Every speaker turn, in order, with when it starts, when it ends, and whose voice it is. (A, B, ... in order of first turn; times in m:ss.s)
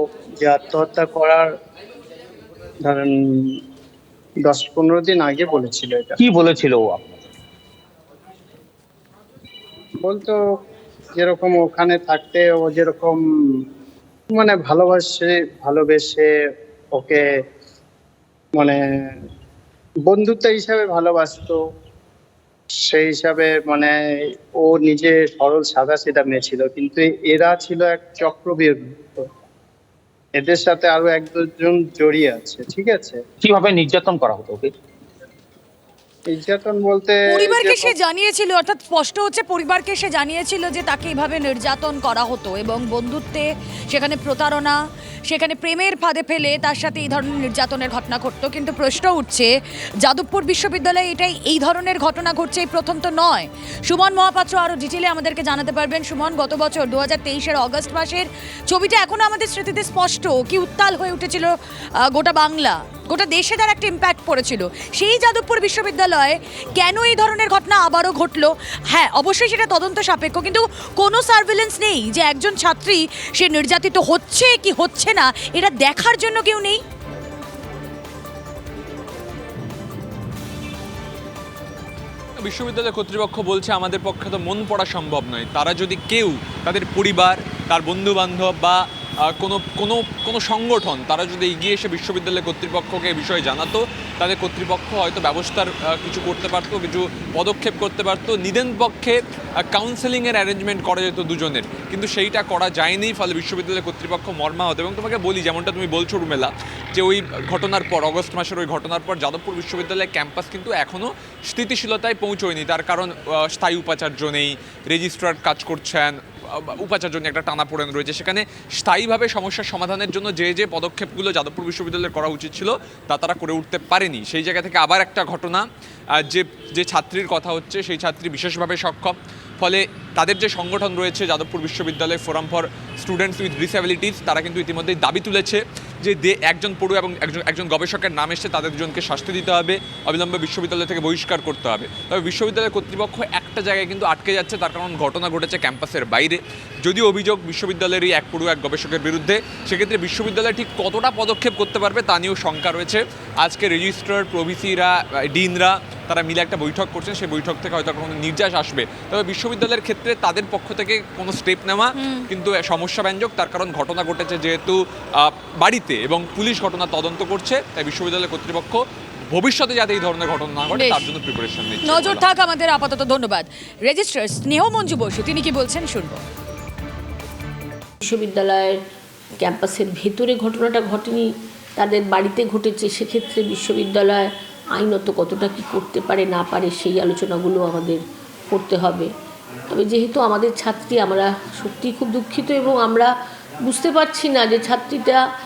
0:00.4-0:01.5 A
0:02.8-0:03.6 A
0:04.4-0:06.2 A
0:06.2-0:07.2 B
0:10.0-0:10.4 A
0:11.2-0:13.2 A
0:14.3-0:16.3 A
0:16.9-0:17.2 A
0:18.5-0:19.2 A
0:20.1-0:21.6 A
0:22.9-0:23.9 A
0:24.6-0:29.2 A
0:30.4-0:33.2 A
0:33.4-0:34.7 B
0:36.3-0:37.9 A
0:37.3-0:49.5 C
0:50.0-1:16.8 C
1:22.4-2:05.6 D
2:06.2-2:48.8 D
2:42.0-2:42.2 C
2:49.3-2:52.2 D
2:50.7-2:51.0 C
2:51.8-2:56.2 C
2:58.0-2:58.8 E
2:59.4-3:09.1 E
3:09.7-3:13.1 E
3:13.6-3:15.2 E